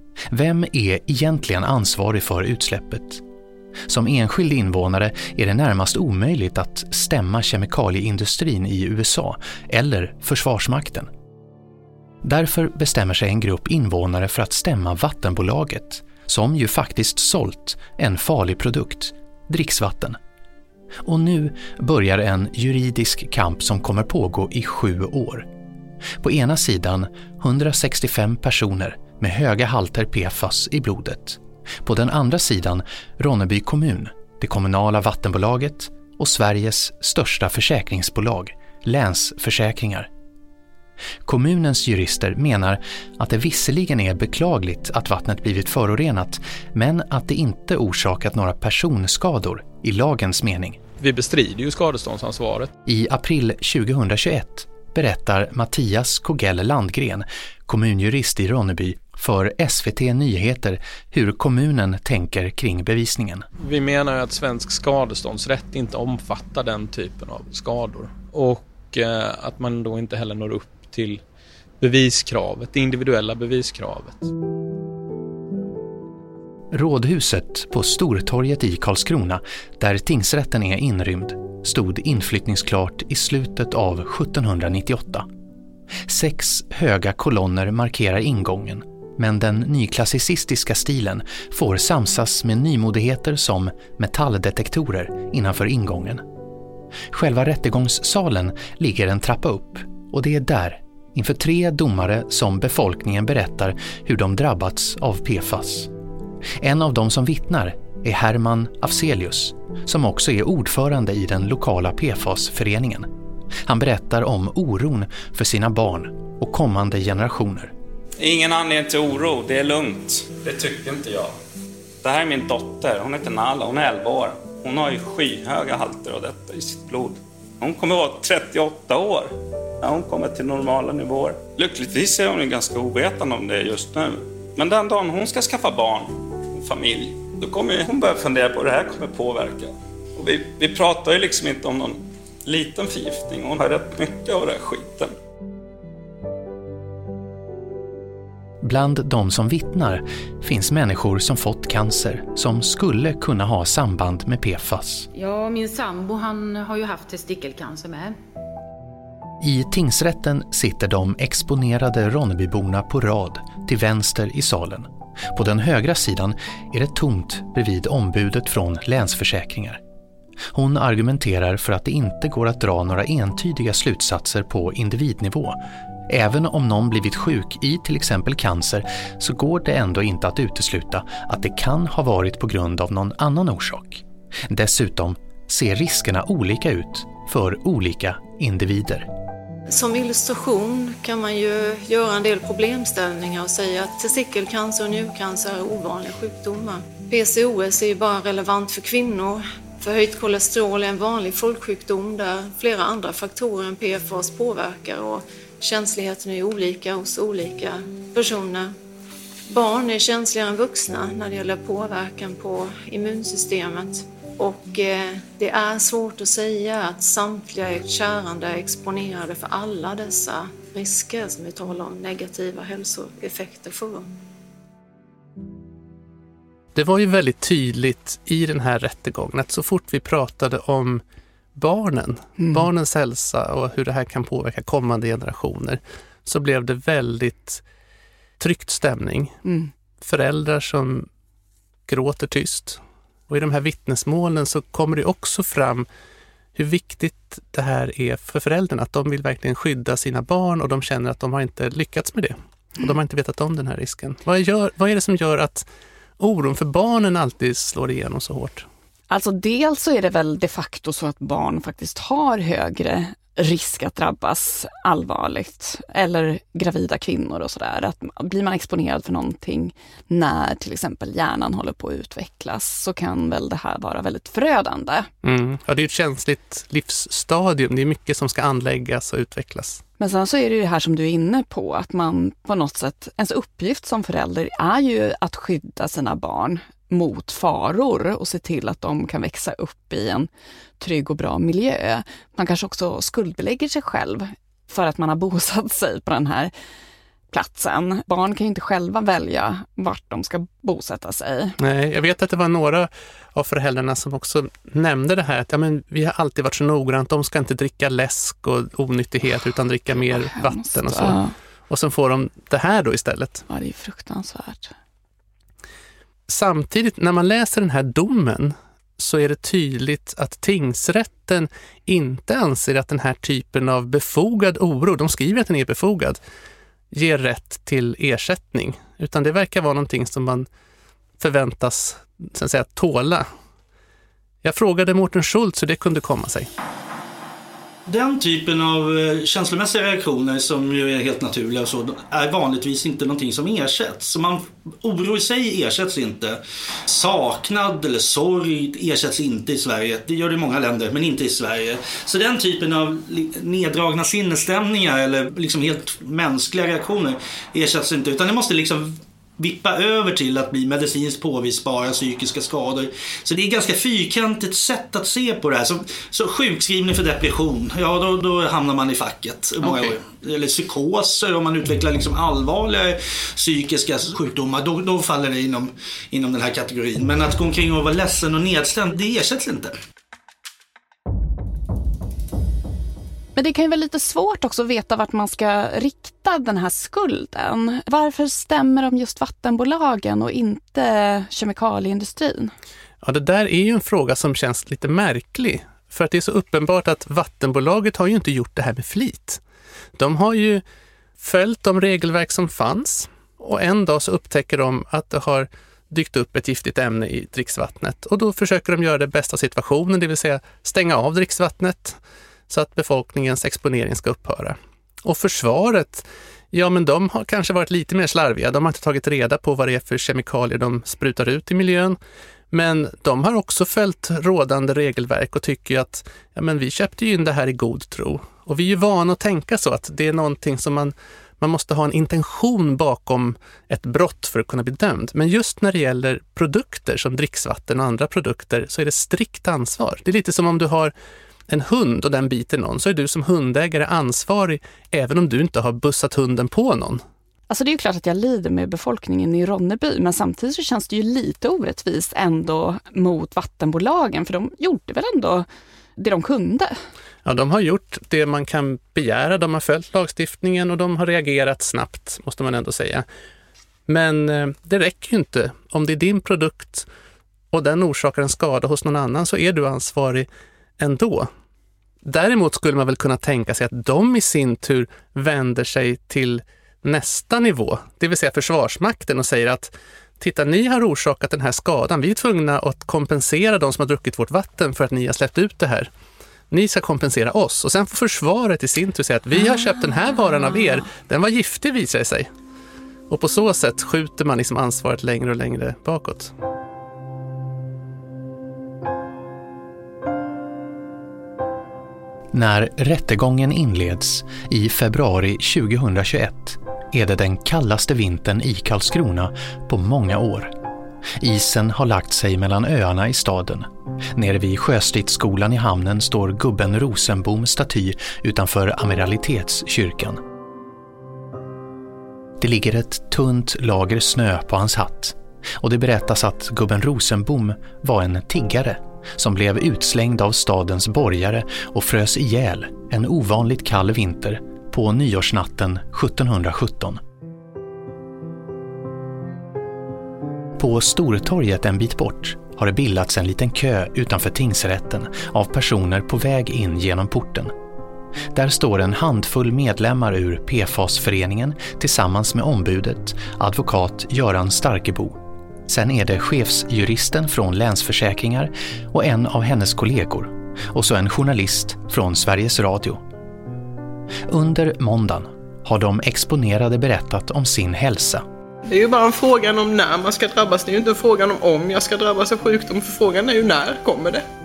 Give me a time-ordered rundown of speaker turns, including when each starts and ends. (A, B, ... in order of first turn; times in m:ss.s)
0:00.3-0:03.2 A
0:03.9-0:11.1 A
0:12.2-0:20.2 A
0:21.0-0:25.5 A
0:26.2-0:40.1 A
0:41.2-0:50.8 A
0:51.0-0:52.7 B
0:52.8-1:03.5 A
1:03.6-1:11.2 B
1:11.8-1:14.3 B
1:16.7-1:25.3 A
1:26.1-1:36.2 A
1:37.1-1:45.9 A
1:46.6-1:53.1 A
1:53.6-1:57.7 A
1:58.2-2:01.3 C
2:02.0-2:25.1 C
2:28.6-2:35.1 A
2:35.1-2:38.2 D
2:39.4-2:49.8 A
2:50.5-3:09.1 A
3:09.7-3:28.7 E
3:29.5-3:44.1 E
3:46.7-3:51.0 F
3:51.5-3:57.6 F
3:52.4-3:52.7 G
3:58.4-3:59.4 F
3:59.4-3:59.7 G
4:00.0-4:01.1 F
4:01.9-4:05.9 F
4:06.6-4:15.6 F
4:16.2-4:18.6 F
4:19.1-4:35.1 G
4:35.2-4:39.8 F
4:40.0-4:50.3 G
4:50.8-4:56.5 G
4:57.3-5:01.6 G
5:01.6-5:13.4 F
5:10.1-5:11.3 G
5:13.5-5:14.7 G
5:16.3-5:26.2 F
5:26.9-5:30.5 F
5:31.2-5:33.3 F
5:34.4-5:36.5 F
5:37.9-6:19.7 H
6:23.4-6:32.5 G
6:33.0-6:39.4 F
6:40.0-6:40.6 F
6:41.2-7:02.0 F
7:02.5-7:20.9 F
7:21.5-7:27.0 F
7:27.5-7:35.4 G
7:36.0-7:36.8 G
7:37.2-7:43.0 F
7:43.9-7:46.9 F
7:47.5-7:50.3 F
7:50.8-7:51.3 F
7:52.0-8:05.9 F
8:06.5-8:12.3 F
8:09.6-8:10.4 G
8:13.1-8:16.3 F
8:22.3-8:30.5 A
8:31.2-8:40.2 A
8:42.4-8:57.0 A
9:00.6-9:07.5 A
9:08.3-9:23.0 A
9:24.3-9:28.2 A
9:28.7-9:34.2 I